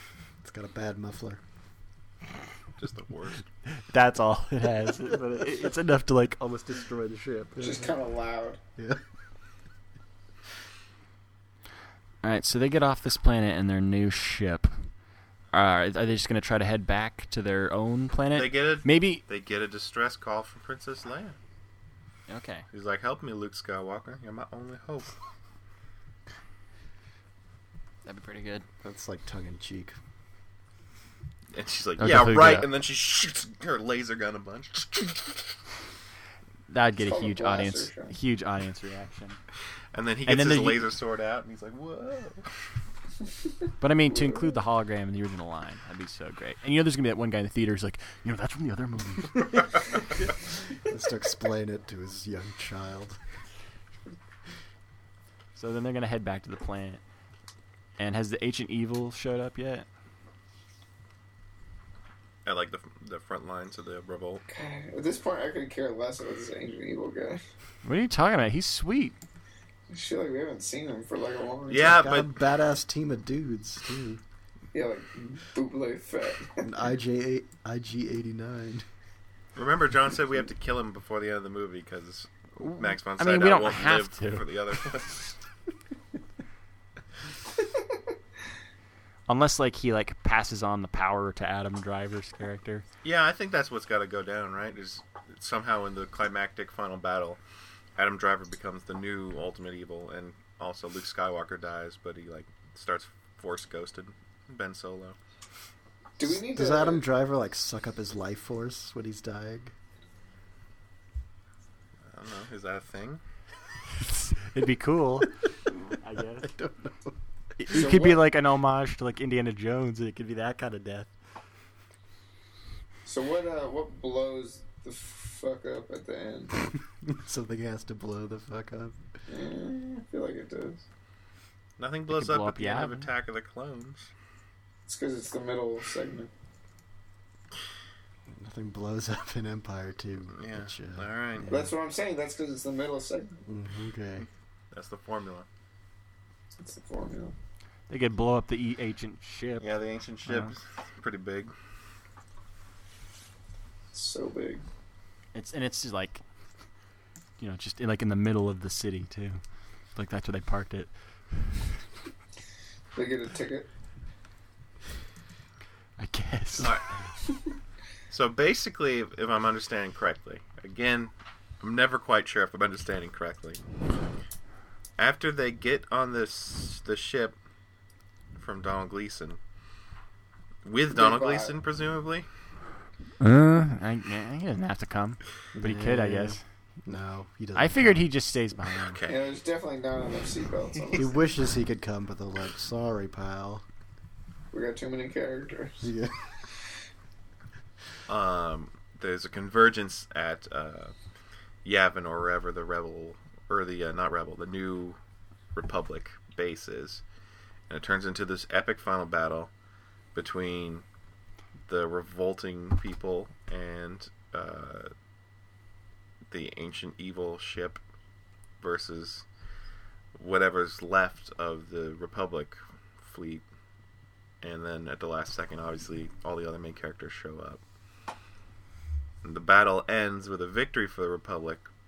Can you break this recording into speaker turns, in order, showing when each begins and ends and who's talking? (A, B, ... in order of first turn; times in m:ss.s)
0:00.4-0:01.4 A
0:02.8-0:03.4 B
0:03.7-0:07.6 C
0:07.6-0:08.6 D
0:07.6-0:07.8 A
0:12.2-0:14.9 C
0:15.5-0:19.2 C
0:18.3-0:21.4 B
0:22.3-0:22.7 C
0:22.7-0:25.1 B
0:28.0-0:28.6 C
0:28.8-0:30.0 A
0:31.5-0:35.4 B
0:32.0-0:32.7 C
0:36.7-0:39.4 C
0:37.0-0:38.1 D
0:39.9-0:42.5 B
0:40.3-0:40.9 C
0:43.8-0:49.5 C
0:50.8-0:53.2 A
0:55.6-0:57.0 C
0:58.0-0:59.9 C
1:02.4-1:04.4 B
1:04.5-1:07.4 D
1:07.8-1:09.2 C
1:09.9-1:12.0 D
1:11.7-1:12.3 B
1:11.8-1:14.2 A
1:14.7-1:16.6 D
1:16.6-1:18.9 A
1:19.5-1:25.2 B
1:22.6-1:25.0 C
1:29.3-1:32.8 C
1:33.0-1:37.4 B
1:38.0-1:45.2 B
1:46.2-1:47.0 D
1:46.2-1:49.7 A
1:52.1-1:53.2 B
1:54.0-1:55.3 C
1:56.0-1:56.5 C
1:56.4-1:57.1 A
1:57.6-2:01.1 C
1:57.7-1:58.2 D
2:03.0-2:06.6 D
2:07.0-2:09.0 A
2:09.3-2:10.8 D
2:11.8-2:14.1 B
2:12.1-2:13.1 C
2:14.9-2:16.3 D
2:18.3-2:21.7 A
2:20.4-2:21.5 B
2:21.5-2:23.4 D
2:23.4-2:24.3 A
2:24.7-2:25.5 B
2:26.6-2:27.3 D
2:27.9-2:29.7 C
2:29.6-2:31.5 B
2:30.2-2:30.5 C
2:33.9-2:34.6 D
2:35.3-2:36.2 C
2:37.4-2:39.4 C
2:40.0-2:40.9 C
2:42.9-2:43.7 D
2:46.0-2:46.8 C
2:46.6-2:46.9 B
2:48.1-2:53.6 B
2:55.0-2:57.4 B
2:58.3-2:59.4 B
3:00.6-3:02.3 B
3:00.9-3:01.5 D
3:03.2-3:06.4 C
3:05.5-3:08.0 A
3:07.5-3:09.0 C
3:08.8-3:09.2 B
3:09.1-3:11.2 D
3:10.9-3:13.6 A
3:14.5-3:15.8 D
3:15.8-3:16.2 A
3:18.1-3:20.9 B
3:21.6-3:25.0 B
3:25.5-3:27.0 B
3:27.7-3:29.5 B
3:30.1-3:30.8 B
3:31.7-3:34.9 B
3:36.3-3:37.8 B
3:38.6-3:39.2 B
3:40.1-3:43.4 B
3:44.4-3:47.6 B
3:49.2-3:51.7 B